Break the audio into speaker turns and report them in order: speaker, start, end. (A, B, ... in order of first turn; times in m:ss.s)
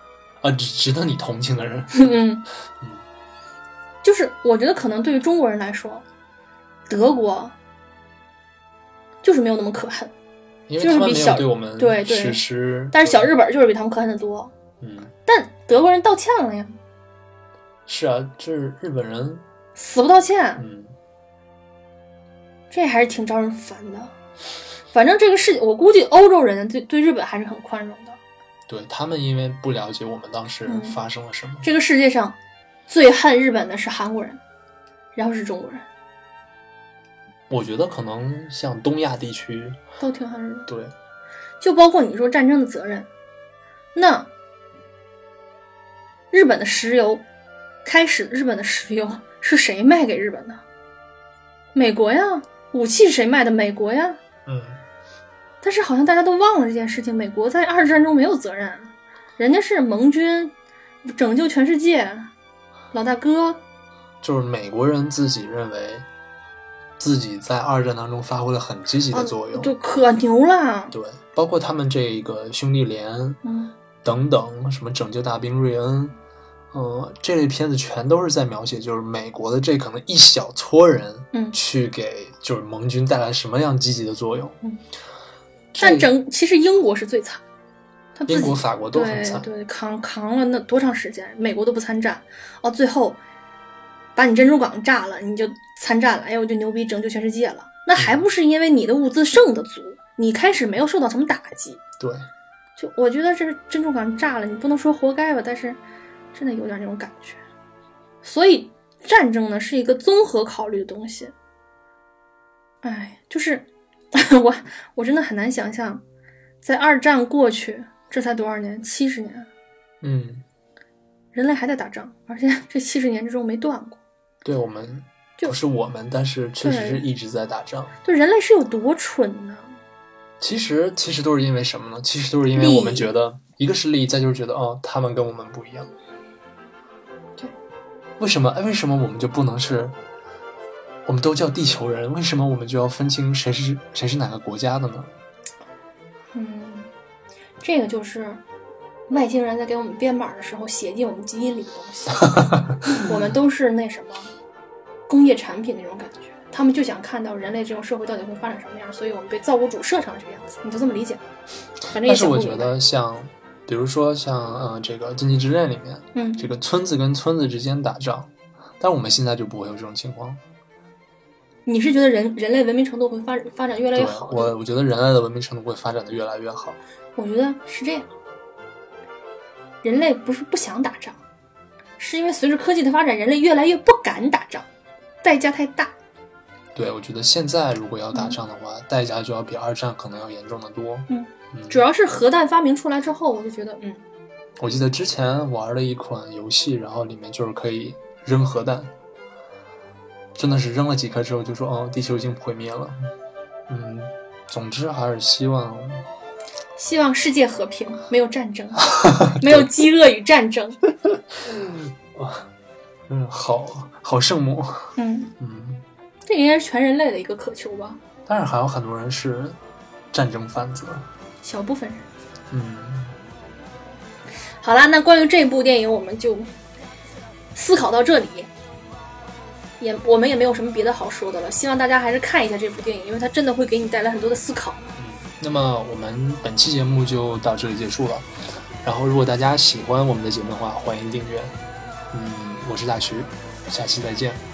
0:00.4-0:02.1 A
0:01.9-0:02.4 B
0:02.8-0:03.0 A
0:04.0-0:06.0 B
0:06.9-0:07.6 B
0:09.2-0:10.1 B
0:10.7-0:13.3 A
0:10.8-0:14.5 B
0:14.8-0:15.1 A
0:15.3-0:16.8 B
0:17.9-0:19.4 A
0:19.8-0:20.6 B
0:20.6-0:21.0 A
0:22.7-0:24.1 B
0:24.9-0:28.2 B
0:28.7-0:31.7 A
0:30.7-0:31.0 B
0:31.6-0:32.4 B
0:32.9-0:34.4 B
0:35.2-0:35.8 B
0:37.5-0:39.8 A
0:40.0-0:40.7 B
0:40.7-0:40.9 A
0:41.6-0:43.1 B
0:44.0-0:44.3 B
0:46.3-0:47.2 B
0:47.8-0:50.6 B
0:51.8-0:54.2 B
0:54.5-0:54.8 A
0:55.6-1:00.5 B
1:01.0-1:02.3 B
1:02.9-1:03.6 B
1:04.2-1:06.1 A
1:07.0-1:09.7 A
1:09.1-1:11.0 B
1:10.9-1:13.4 A
1:13.4-1:13.7 B
1:14.0-1:16.2 A
1:16.7-1:24.6 A
1:21.3-1:21.6 B
1:25.7-1:26.1 A
1:25.8-1:27.4 B
1:28.2-1:33.2 B
1:28.3-1:29.5 A
1:34.2-1:41.8 B
1:38.0-1:38.2 A
1:42.8-1:45.8 B
1:46.3-1:47.4 B
1:48.2-1:51.3 B
1:52.8-1:56.0 B
1:56.6-1:59.5 B
2:00.0-2:00.4 A
2:01.4-2:04.0 B
2:04.4-2:08.0 A
2:06.6-2:07.0 B
2:08.0-2:09.8 B
2:10.4-2:15.9 A
2:12.5-2:13.1 B
2:18.2-2:20.0 A
2:21.1-2:25.1 A
2:26.3-2:26.9 B
2:27.6-2:28.4 B
2:29.1-2:34.3 B
2:35.1-2:41.2 B
2:41.9-2:42.8 B
2:42.0-2:50.4 A
2:46.2-2:46.5 B
2:51.7-2:54.5 B
2:53.9-2:56.8 A
2:57.2-2:58.1 B
2:59.8-3:01.2 B
3:02.0-3:04.7 B
3:05.2-3:05.9 B
3:06.8-3:11.8 A
3:08.1-3:08.4 B
3:11.1-3:14.0 B
3:14.6-3:18.9 A
3:20.4-3:23.0 A
3:23.7-3:26.1 A
3:26.8-3:30.8 B
3:29.0-3:29.7 A
3:31.4-3:32.5 A
3:33.1-3:35.8 A
3:35.0-3:35.3 B
3:36.3-3:38.0 B
3:38.3-3:39.6 A
3:40.1-3:41.1 A
3:41.4-3:42.1 B
3:42.5-3:43.2 A
3:44.6-3:46.5 B
3:47.6-3:48.5 B
3:49.8-3:54.9 B
3:55.0-3:58.3 A
3:58.8-4:01.6 A
4:02.1-4:04.4 A